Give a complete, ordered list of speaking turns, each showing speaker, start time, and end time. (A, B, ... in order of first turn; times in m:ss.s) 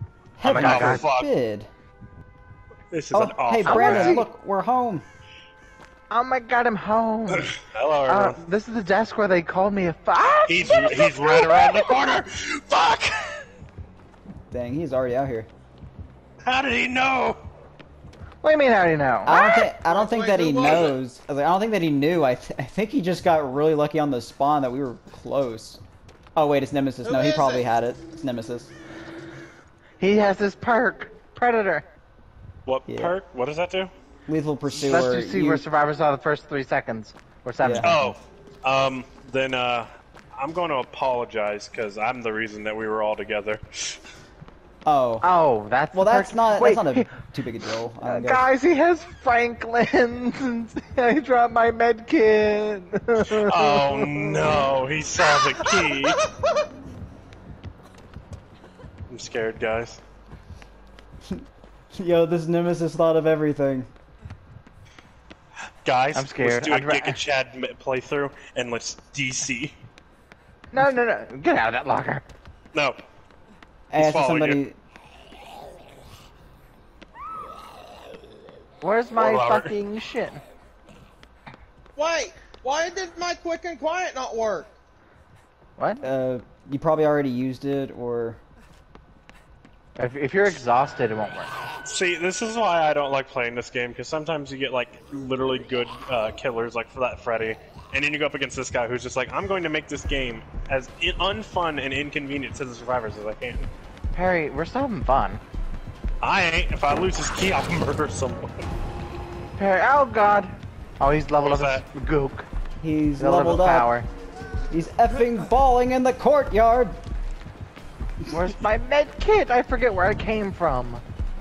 0:00.4-0:01.7 A
0:00.4-0:01.1 B
0:00.4-0:01.3 C
0:02.9-0:04.2 C
0:03.1-0:05.0 A
0:03.6-0:04.3 B
0:06.1-0:07.5 B
0:07.3-0:08.4 C
0:08.1-0:12.0 B
0:10.5-0:13.4 C
0:14.5-0:15.5 A
0:16.4-0:17.4 C
0:18.4-0:19.4 B
0:19.2-0:25.8 A
0:19.3-0:19.7 C
0:19.8-0:21.0 D
0:26.4-0:28.7 A
0:27.0-0:27.7 D
0:30.0-0:31.8 B
0:32.7-0:33.9 C
0:32.9-0:33.2 A
0:34.3-0:35.6 A
0:34.7-0:38.1 B
0:37.6-0:37.9 A
0:37.8-0:44.0 C
0:44.9-0:45.2 A
0:45.2-0:47.1 B
0:45.9-0:48.4 A
0:48.0-0:54.5 B
0:53.2-0:56.2 C
0:55.7-0:56.7 D
0:59.1-1:00.0 C
1:02.0-1:03.9 A
1:05.8-1:09.8 C
1:06.1-1:07.2 B
1:10.7-1:12.2 B
1:13.9-1:14.8 A
1:14.0-1:14.6 C
1:18.8-1:20.4 B
1:19.2-1:19.7 C
1:22.0-1:24.7 D
1:25.8-1:26.0 B
1:26.0-1:28.4 A
1:30.0-1:31.5 B
1:31.8-1:43.7 C
1:44.1-1:45.4 B
1:46.2-1:48.5 C
1:49.6-1:52.5 B
1:51.4-1:51.8 C
1:52.8-1:53.9 A
1:53.2-1:54.1 B
1:54.7-1:57.0 A
1:58.3-2:01.0 B